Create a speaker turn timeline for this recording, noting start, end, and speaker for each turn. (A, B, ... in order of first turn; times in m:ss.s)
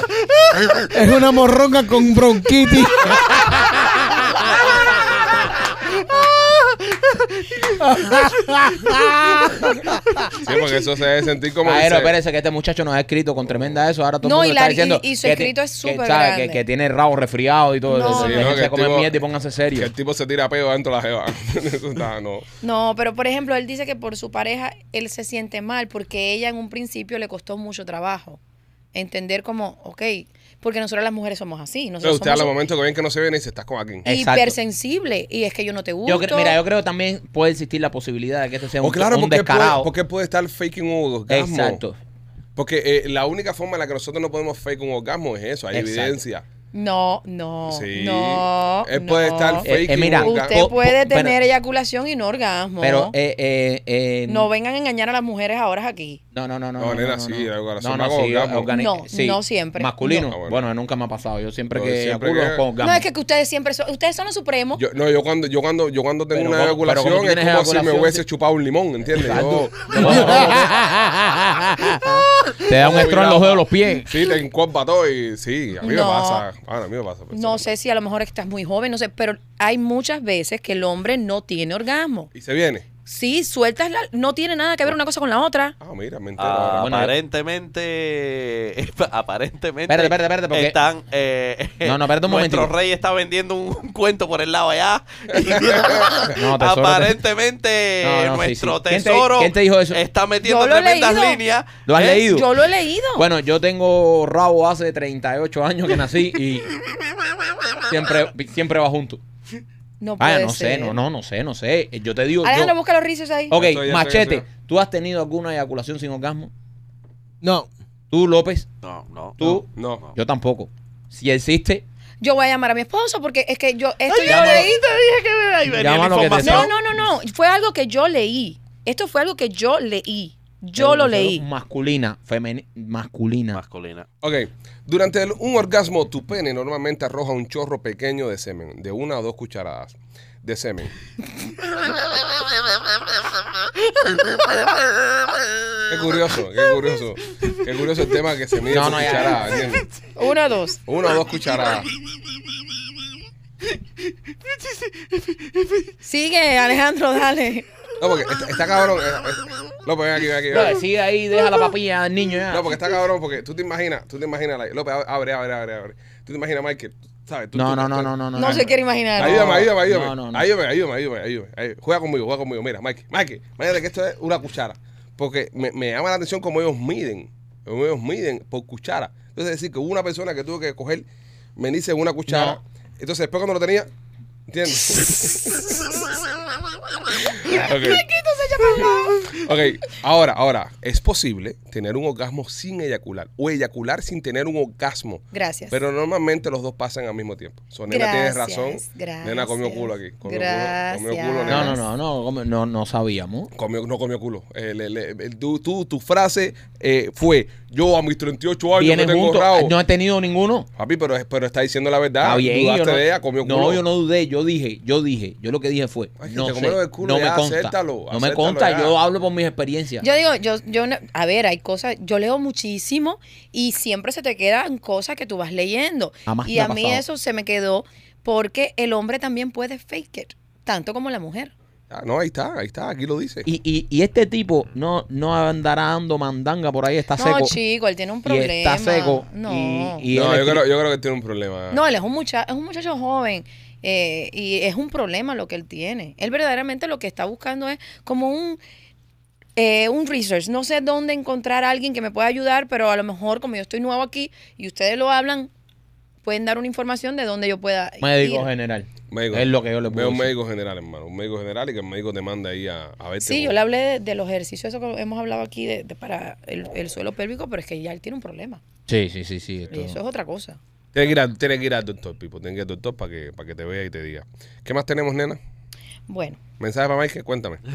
0:00.7-0:03.5 A
0:07.7-0:10.3 A
0:10.4-0:12.2 B
0:11.6-0:19.9 C
0:13.5-0:13.8 B
0:14.2-0:16.6 D
0:17.8-0:18.6 D
0:18.1-0:19.2 B
0:19.7-0:22.5 B
0:22.6-0:28.4 D
0:28.9-0:32.6 D
0:32.0-0:34.1 B
0:34.0-0:34.6 C
0:34.1-0:36.6 D
0:36.1-0:39.9 C
0:38.8-0:41.8 B
0:41.3-0:42.0 C
0:42.6-0:46.5 B
0:45.7-0:46.2 C
0:46.7-0:53.2 D
0:47.7-0:50.7 B
0:49.6-0:51.4 C
0:52.8-0:54.5 C
0:54.3-0:56.2 D
0:56.3-1:03.0 C
0:56.8-0:58.7 B
0:58.7-1:00.2 D
1:00.1-1:00.6 B
1:01.7-1:02.6 B
1:02.8-1:04.8 D
1:04.8-1:10.6 B
1:06.3-1:08.2 C
1:09.1-1:14.1 C
1:10.0-1:10.5 A
1:12.7-1:17.7 B
1:15.8-1:16.5 D
1:17.3-1:22.3 D
1:22.3-1:22.9 B
1:23.0-1:25.8 D
1:25.8-1:27.0 B
1:26.4-1:42.3 E
1:26.8-1:27.1 C
1:29.9-1:30.8 C
1:31.8-1:32.7 C
1:35.4-1:36.3 B
1:36.2-1:37.2 C
1:38.0-1:40.0 C
1:40.4-1:41.4 D
1:41.9-1:42.5 C
1:42.0-1:43.3 D
1:43.2-1:46.7 C
1:47.9-1:49.2 C
1:50.0-1:51.0 D
1:50.2-1:52.7 C
1:52.4-1:53.6 D
1:53.5-1:56.5 C
1:53.5-1:54.5 B
1:57.4-1:57.7 A
1:58.1-1:58.7 C
1:58.8-2:00.1 E
1:59.4-2:01.8 C
1:59.8-2:00.0 B
2:02.2-2:04.8 D
2:04.1-2:06.7 E
2:04.2-2:04.7 C
2:05.7-2:06.7 C
2:06.4-2:11.4 D
2:10.8-2:13.6 C
2:13.5-2:14.1 E
2:14.2-2:20.9 B
2:25.9-2:29.9 B
2:28.7-2:29.5 C
2:30.2-2:30.8 D
2:30.9-2:31.9 B
2:34.4-2:35.9 E
2:36.0-2:37.7 D
2:38.0-2:40.8 B
2:40.5-2:42.8 C
2:42.5-2:48.6 B
2:47.5-2:50.4 C
2:48.4-2:49.6 D
2:49.2-3:03.9 B
3:02.3-3:02.6 C
3:04.5-3:06.0 B
3:07.2-3:08.1 B
3:07.4-3:09.3 D
3:09.3-3:21.8 B
3:15.3-3:15.8 D
3:17.9-3:21.8 D
3:21.5-3:23.5 C
3:23.5-3:29.8 B
3:28.8-3:30.7 C
3:30.8-3:33.8 B
3:32.2-3:40.1 C
3:36.2-3:39.0 B
3:40.0-3:51.5 D
3:46.3-3:47.0 C
3:51.9-3:53.5 B
3:53.4-3:57.6 C
3:57.2-4:00.1 D
3:58.3-4:00.7 C
4:00.1-4:01.8 B
4:01.7-4:08.6 D
4:09.6-4:15.5 D
4:16.2-4:18.5 D
4:18.0-4:20.3 C
4:19.1-4:23.6 B
4:23.2-4:28.6 D
4:28.9-4:30.0 C
4:29.7-4:30.6 D
4:30.9-4:35.4 B
4:36.1-4:36.4 D
4:36.6-4:37.6 B